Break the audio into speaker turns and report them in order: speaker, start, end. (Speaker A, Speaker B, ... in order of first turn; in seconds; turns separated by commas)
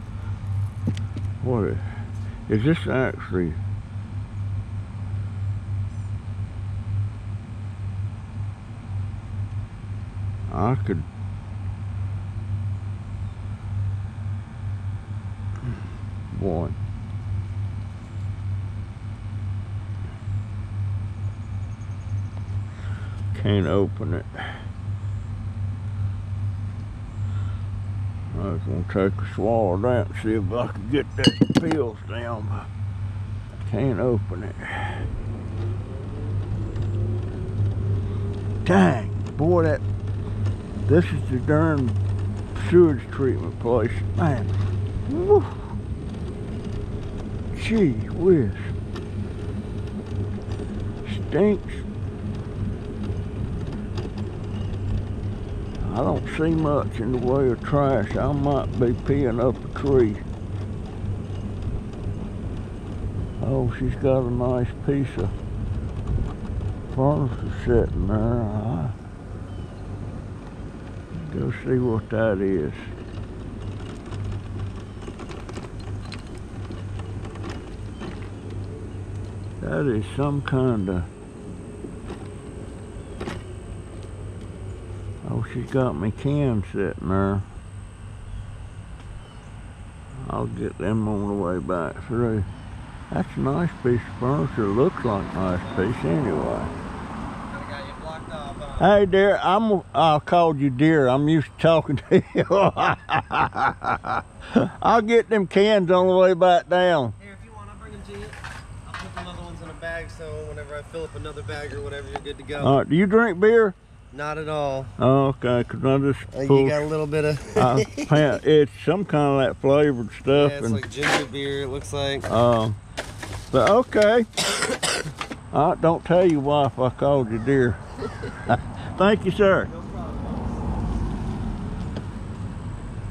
Speaker A: 1.4-3.6, Speaker A: 10.5-11.1, Speaker A: 16.3-16.8, Speaker A: 23.3-24.6, Speaker A: 28.3-32.7, Speaker A: 33.6-35.1, Speaker A: 38.6-39.8, Speaker A: 40.9-42.0, Speaker A: 42.5-44.5, Speaker A: 45.0-45.7, Speaker A: 47.5-48.8, Speaker A: 51.0-51.9, Speaker A: 55.8-60.2, Speaker A: 63.4-65.3, Speaker A: 66.9-69.0, Speaker A: 71.1-72.9, Speaker A: 79.6-81.1, Speaker A: 85.2-87.5, Speaker A: 90.2-92.5, Speaker A: 93.1-96.7, Speaker B: 95.4-95.9, Speaker B: 97.5-98.9, Speaker A: 98.8-107.1, Speaker B: 107.2-112.8, Speaker A: 112.6-113.8, Speaker B: 114.1-114.9, Speaker A: 115.0-116.9, Speaker B: 116.3-118.4, Speaker A: 117.5-120.8, Speaker B: 120.3-122.3, Speaker A: 122.2-122.8, Speaker A: 123.5-124.3, Speaker A: 125.5-129.7, Speaker B: 129.7-130.5